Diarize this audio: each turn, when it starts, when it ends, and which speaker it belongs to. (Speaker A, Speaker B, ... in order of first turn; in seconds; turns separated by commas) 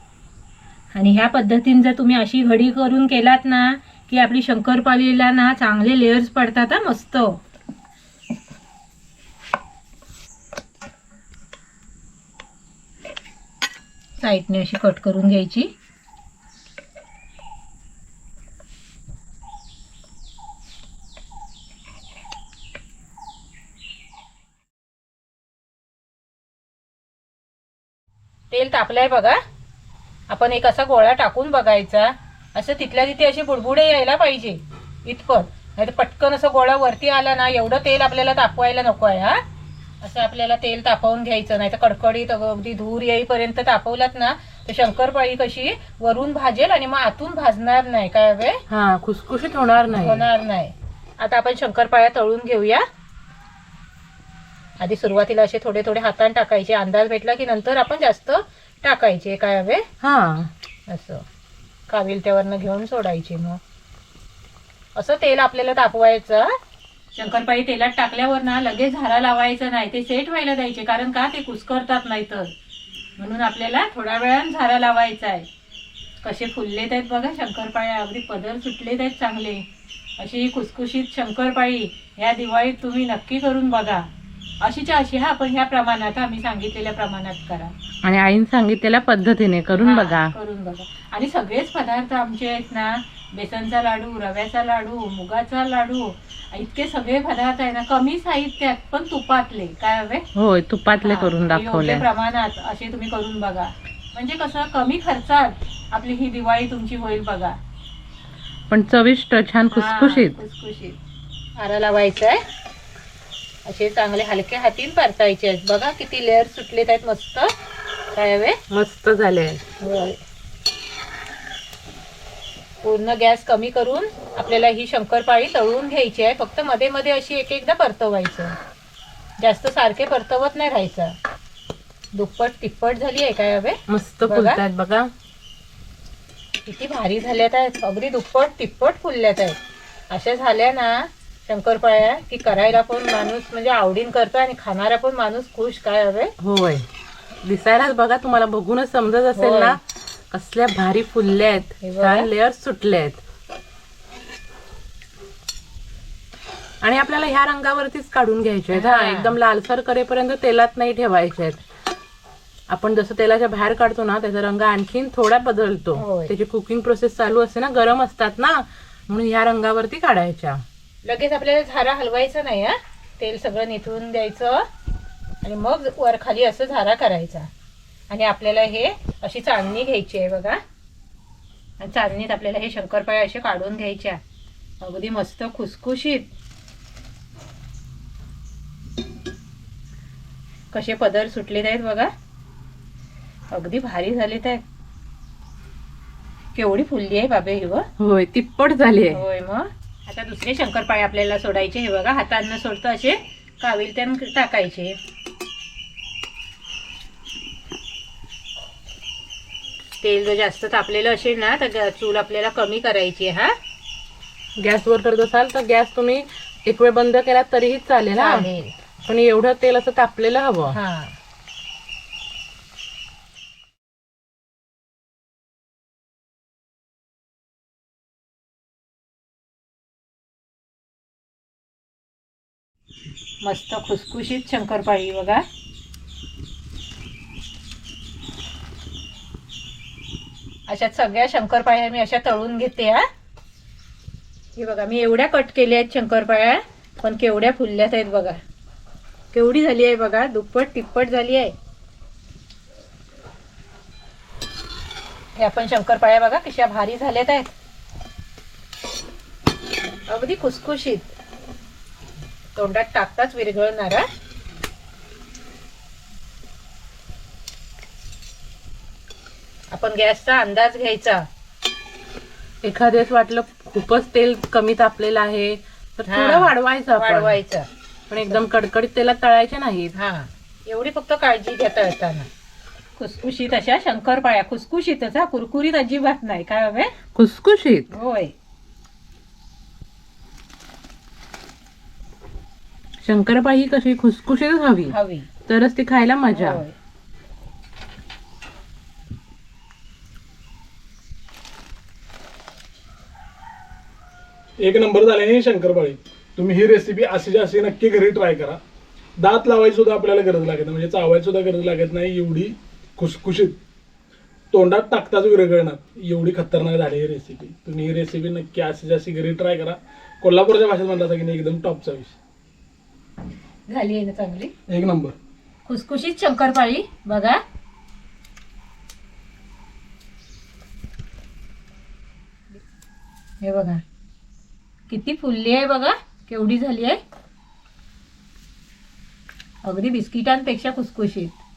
Speaker A: 0.9-7.4, Speaker A: 14.2-15.7, Speaker A: 28.5-29.4, Speaker A: 30.3-39.4, Speaker A: 40.0-48.6, Speaker B: 48.7-50.2, Speaker A: 49.9-52.8, Speaker A: 54.8-59.9, Speaker B: 60.0-60.5, Speaker A: 60.9-61.2, Speaker A: 61.9-63.6, Speaker A: 64.9-66.5, Speaker A: 67.1-72.5, Speaker A: 73.2-75.5, Speaker A: 76.2-79.6, Speaker A: 80.2-84.1, Speaker A: 84.6-87.7, Speaker B: 88.0-90.3, Speaker A: 89.8-100.2, Speaker B: 100.3-102.0, Speaker A: 101.0-107.6, Speaker B: 108.7-110.4, Speaker A: 109.7-111.0, Speaker A: 111.6-112.4, Speaker A: 113.6-117.5, Speaker A: 118.1-118.6, Speaker B: 118.7-119.6, Speaker A: 119.8-120.2, Speaker A: 122.8-128.6, Speaker A: 129.4-131.2, Speaker A: 132.1-134.6, Speaker B: 133.9-135.1, Speaker A: 136.6-146.3, Speaker B: 146.4-146.8, Speaker B: 147.4-149.8, Speaker A: 149.3-149.8, Speaker B: 150.3-153.2, Speaker A: 151.8-152.3, Speaker B: 156.8-161.6, Speaker A: 158.7-159.4, Speaker B: 162.7-170.6, Speaker A: 165.9-166.3, Speaker A: 171.0-174.6, Speaker A: 175.4-177.5, Speaker A: 178.1-180.6, Speaker A: 181.8-184.2, Speaker A: 184.8-186.3, Speaker A: 190.7-192.1, Speaker A: 193.5-194.6, Speaker A: 196.5-197.9, Speaker B: 198.0-199.2, Speaker A: 199.1-205.0, Speaker A: 210.0-213.5, Speaker B: 214.6-218.5, Speaker A: 218.2-218.7, Speaker B: 219.0-220.8, Speaker A: 220.7-221.2, Speaker A: 233.4-235.4, Speaker A: 240.7-243.0, Speaker A: 244.6-248.4, Speaker A: 249.3-251.5, Speaker A: 255.3-257.5, Speaker A: 260.1-261.1, Speaker A: 262.5-264.1, Speaker A: 269.7-271.2, Speaker B: 272.6-277.4, Speaker A: 276.1-277.7, Speaker B: 278.1-279.9, Speaker A: 279.9-282.3, Speaker A: 283.0-286.9, Speaker B: 287.1-287.9, Speaker A: 287.9-288.3, Speaker B: 293.0-294.9, Speaker A: 294.9-295.3, Speaker B: 295.5-296.6, Speaker A: 296.3-296.7, Speaker C: 304.6-308.6, Speaker C: 309.2-313.6, Speaker C: 314.5-322.2, Speaker A: 323.7-324.5, Speaker C: 324.7-325.1, Speaker A: 325.6-327.4, Speaker A: 333.4-333.8, Speaker A: 334.9-337.0, Speaker A: 339.6-341.4